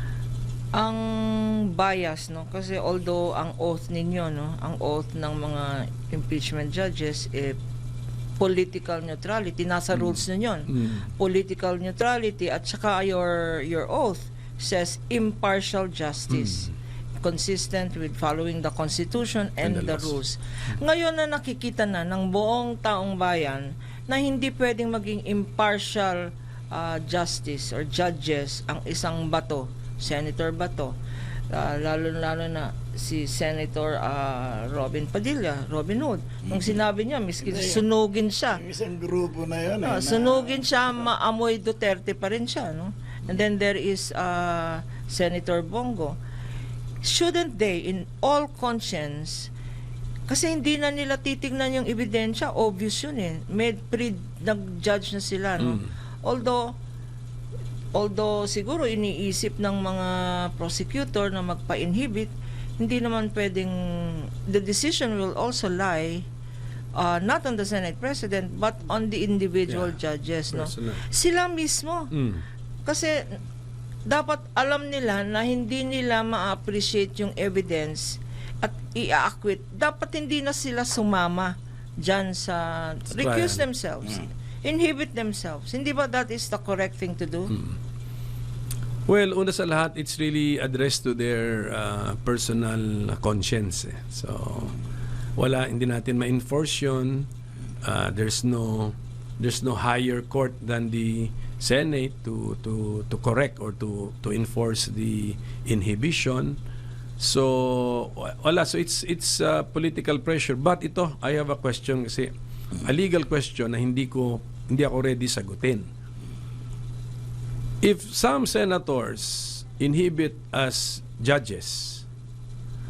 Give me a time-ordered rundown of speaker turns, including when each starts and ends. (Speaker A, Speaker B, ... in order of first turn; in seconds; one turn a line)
Speaker A: 0.7-7.6
Speaker A: 8.4-30.9
Speaker B: 10.7-11.0
Speaker B: 16.3-16.7
Speaker B: 19.6-20.2
Speaker A: 31.5-38.6
Speaker C: 38.6-40.6
Speaker A: 39.8-46.2
Speaker A: 47.0-49.5
Speaker A: 50.3-56.7
Speaker A: 57.9-66.2
Speaker A: 67.0-72.1
Speaker B: 69.7-70.0
Speaker B: 70.5-71.0
Speaker B: 72.1-72.4
Speaker A: 72.8-73.3
Speaker A: 74.0-87.6
Speaker B: 83.1-83.6
Speaker B: 89.1-94.8
Speaker B: 95.3-97.3
Speaker B: 97.8-106.6
Speaker B: 107.2-115.9
Speaker B: 117.8-122.0